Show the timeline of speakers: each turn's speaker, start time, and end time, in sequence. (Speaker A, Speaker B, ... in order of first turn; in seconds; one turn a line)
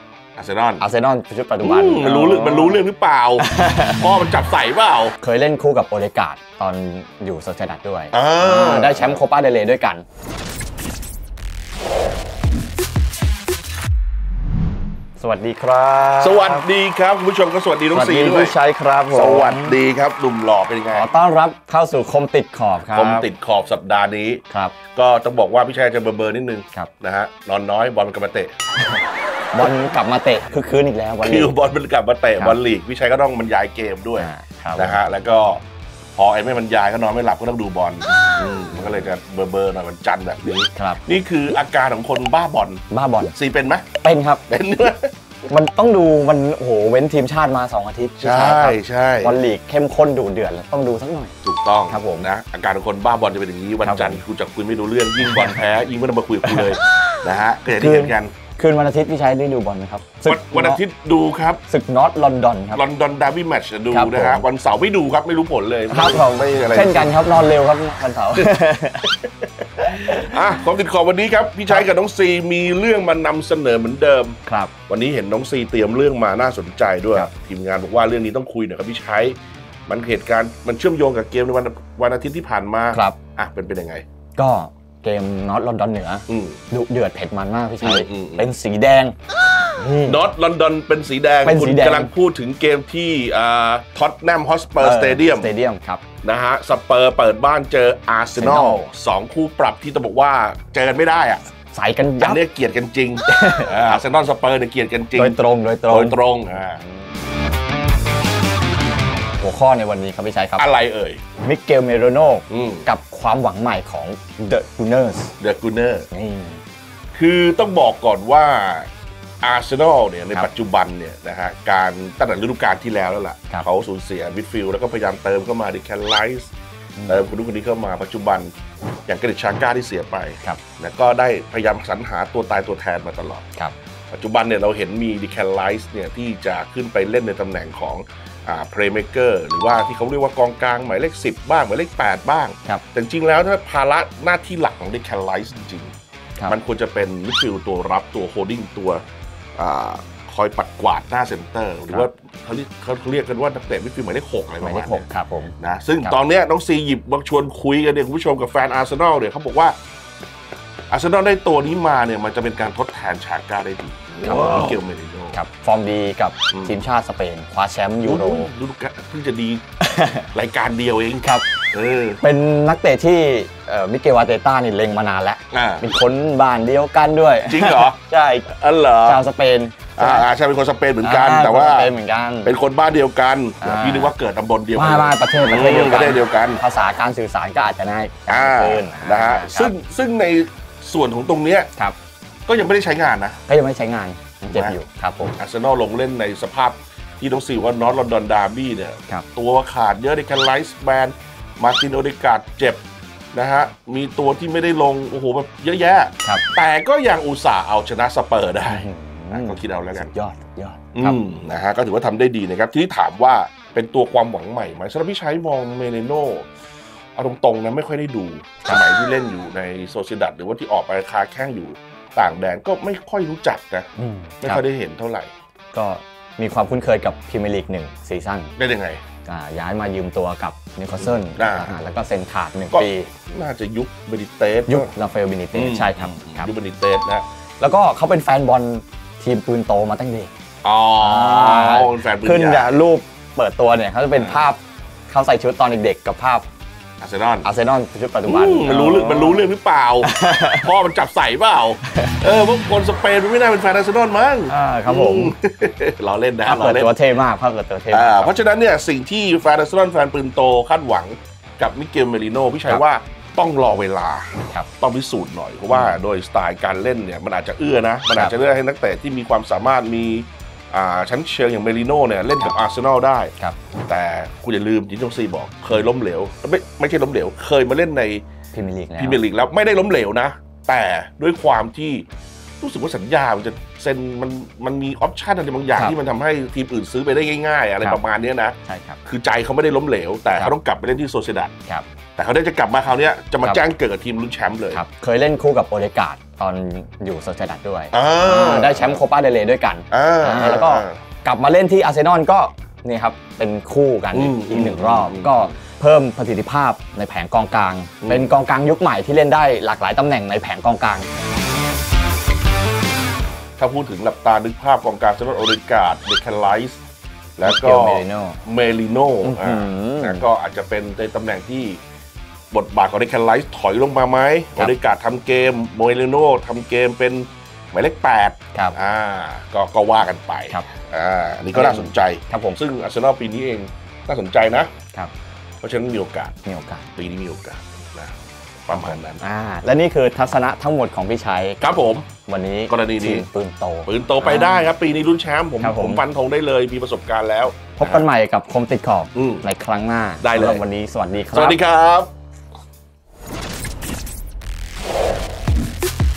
Speaker A: 0.3-0.8
Speaker B: 0.8-2.8
Speaker A: 1.6-3.4
Speaker B: 3.4-4.0
Speaker A: 4.0-5.1
Speaker B: 5.2-10.0
Speaker A: 8.1-9.2
Speaker B: 15.2-16.6
Speaker A: 16.2-18.5
Speaker B: 17.9-19.8
Speaker A: 19.1-21.1
Speaker B: 20.9-23.2
Speaker A: 22.9-24.4
Speaker B: 24.5-24.8
Speaker A: 24.9-28.5
Speaker B: 29.5-31.5
Speaker A: 31.2-35.6
Speaker B: 34.2-35.0
Speaker A: 36.1-43.9
Speaker B: 38.2-39.1
Speaker B: 40.7-41.0
Speaker B: 42.9-43.3
Speaker B: 44.0-44.4
Speaker A: 44.5-45.1
Speaker B: 45.5-51.3
Speaker A: 48.2-49.4
Speaker A: 51.4-58.3
Speaker B: 51.9-52.3
Speaker B: 53.8-54.2
Speaker B: 55.2-55.6
Speaker B: 56.4-56.8
Speaker B: 57.7-60.8
Speaker A: 60.2-61.6
Speaker B: 61.7-62.8
Speaker A: 62.7-67.2
Speaker B: 63.9-64.4
Speaker B: 65.9-69.2
Speaker B: 69.8-70.4
Speaker A: 70.0-74.4
Speaker B: 74.5-74.7
Speaker A: 74.9-79.3
Speaker A: 79.9-84.0
Speaker B: 82.9-83.2
Speaker B: 84.4-89.1
Speaker A: 86.3-86.6
Speaker A: 87.8-88.5
Speaker B: 89.8-90.2
Speaker A: 90.0-95.5
Speaker B: 91.4-92.1
Speaker B: 94.8-96.0
Speaker A: 96.2-101.4
Speaker B: 98.4-98.9
Speaker B: 101.7-102.4
Speaker A: 102.2-106.8
Speaker B: 103.3-104.0
Speaker B: 105.2-107.1
Speaker B: 109.4-110.7
Speaker A: 110.6-111.2
Speaker B: 111.4-115.3
Speaker A: 112.5-112.9
Speaker A: 115.4-116.1
Speaker B: 116.1-116.6
Speaker A: 117.1-118.9
Speaker A: 119.4-126.5
Speaker B: 127.0-127.3
Speaker A: 127.1-128.5
Speaker A: 129.1-133.4
Speaker A: 134.1-145.9
Speaker A: 146.5-149.0
Speaker A: 149.6-155.0
Speaker B: 154.6-156.2
Speaker A: 155.6-159.8
Speaker A: 160.9-165.4
Speaker B: 164.2-164.8
Speaker B: 165.3-168.5
Speaker A: 166.5-166.8
Speaker A: 168.0-169.6
Speaker B: 169.8-170.3
Speaker A: 170.3-172.2
Speaker B: 172.2-178.5
Speaker A: 175.5-175.9
Speaker A: 177.4-178.0
Speaker A: 178.5-179.2
Speaker B: 179.1-180.3
Speaker A: 179.9-181.9
Speaker B: 181.0-182.5
Speaker A: 182.4-186.6
Speaker B: 183.6-184.1
Speaker B: 184.7-189.7
Speaker A: 188.3-191.7
Speaker A: 192.4-193.4
Speaker B: 193.5-195.3
Speaker A: 194.5-194.8
Speaker A: 195.4-202.8
Speaker A: 203.3-210.1
Speaker B: 208.6-211.2
Speaker A: 210.9-216.5
Speaker A: 217.2-223.9
Speaker B: 224.0-224.6
Speaker A: 224.4-225.3
Speaker B: 225.7-228.5
Speaker A: 228.6-229.0
Speaker B: 229.2-233.1
Speaker A: 231.3-231.7
Speaker A: 232.7-234.9
Speaker B: 234.7-236.5
Speaker A: 235.5-237.2
Speaker B: 237.6-240.3
Speaker A: 240.6-242.7
Speaker B: 241.0-246.4
Speaker A: 244.2-244.4
Speaker A: 247.0-247.5
Speaker B: 247.4-249.4
Speaker A: 248.2-256.9
Speaker B: 250.0-250.7
Speaker B: 254.5-255.3
Speaker B: 256.4-258.3
Speaker A: 257.9-273.3
Speaker B: 265.7-266.0
Speaker A: 273.9-278.2
Speaker B: 278.5-279.2
Speaker A: 279.0-282.1
Speaker A: 282.6-291.5
Speaker B: 288.6-289.0
Speaker A: 292.2-294.8
Speaker B: 294.7-311.1
Speaker A: 297.9-299.0
Speaker A: 299.9-301.0
Speaker A: 304.1-305.5
Speaker A: 308.0-308.3
Speaker A: 313.6-316.8
Speaker A: 317.4-321.8
Speaker B: 317.4-318.4
Speaker B: 319.2-320.2
Speaker A: 322.5-334.7
Speaker B: 331.5-332.6
Speaker A: 335.6-336.4
Speaker B: 336.4-336.9
Speaker A: 336.9-339.2
Speaker B: 338.7-341.7
Speaker A: 341.6-342.1
Speaker B: 342.2-344.7
Speaker A: 342.7-343.3
Speaker A: 343.9-348.1
Speaker B: 345.6-346.0
Speaker B: 347.8-351.6
Speaker A: 349.1-349.5
Speaker A: 350.2-350.6
Speaker A: 351.3-352.1